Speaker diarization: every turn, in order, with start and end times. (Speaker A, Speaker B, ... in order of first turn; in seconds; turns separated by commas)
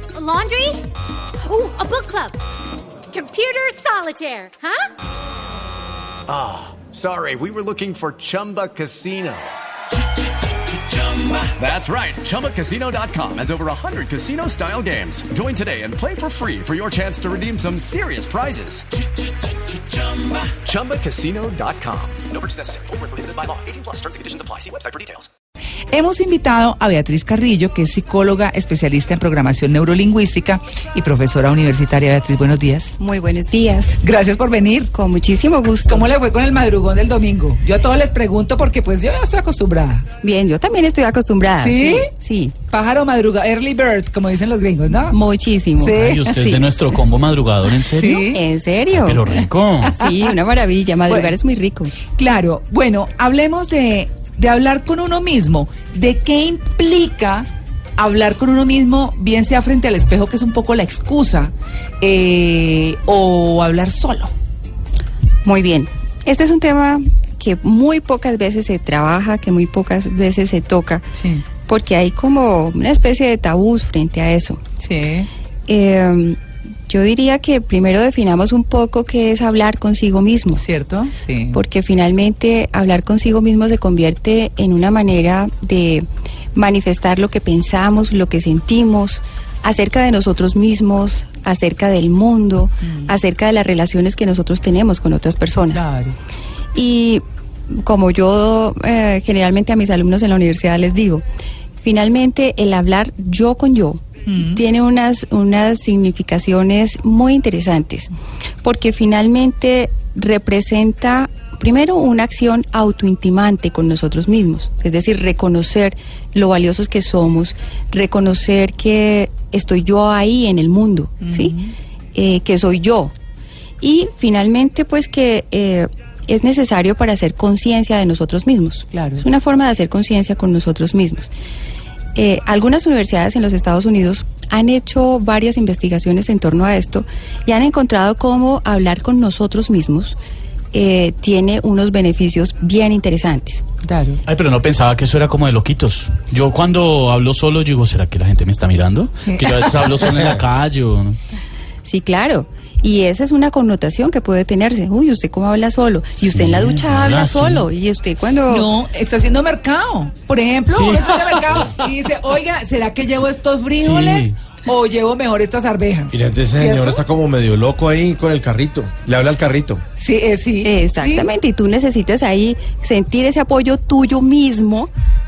Speaker A: 0.1-0.8, Speaker A: 1.4-2.4, Speaker A: 3.1-4.9, Speaker B: 6.3-9.5, Speaker B: 10.7-18.8, Speaker B: 19.7-25.3, Speaker C: 25.9-33.0, Speaker D: 33.0-34.0, Speaker C: 34.0-34.9, Speaker D: 34.9-36.0, Speaker C: 35.9-40.1, Speaker D: 40.2-42.5, Speaker C: 41.6-42.1, Speaker C: 42.7-45.1, Speaker D: 45.1-46.6, Speaker C: 45.8-46.3, Speaker E: 45.9-48.3, Speaker C: 47.8-48.4, Speaker D: 48.3-49.2, Speaker E: 48.9-50.0, Speaker D: 49.9-51.9, Speaker C: 50.0-50.3, Speaker C: 51.1-51.3, Speaker C: 52.1-64.3, Speaker D: 65.4-71.0, Speaker C: 71.2-71.4, Speaker D: 71.6-74.6, Speaker C: 74.8-75.3, Speaker D: 75.7-80.6, Speaker C: 80.5-81.6, Speaker D: 81.5-95.8, Speaker C: 92.8-93.2, Speaker C: 95.7-96.2, Speaker D: 96.7-101.2, Speaker D: 101.8-108.1, Speaker C: 104.3-104.6, Speaker D: 108.6-121.5, Speaker C: 121.2-121.7, Speaker D: 122.1-123.1, Speaker D: 123.8-131.3, Speaker C: 128.9-129.2, Speaker D: 132.1-140.2, Speaker D: 140.7-143.6, Speaker C: 143.8-144.2, Speaker E: 144.3-151.2, Speaker C: 149.3-149.9, Speaker F: 150.1-150.4, Speaker D: 151.8-158.7, Speaker E: 156.2-157.7, Speaker C: 158.5-167.0, Speaker E: 160.7-161.7, Speaker E: 163.8-164.3, Speaker F: 166.1-169.8, Speaker C: 170.0-171.3, Speaker D: 170.6-174.9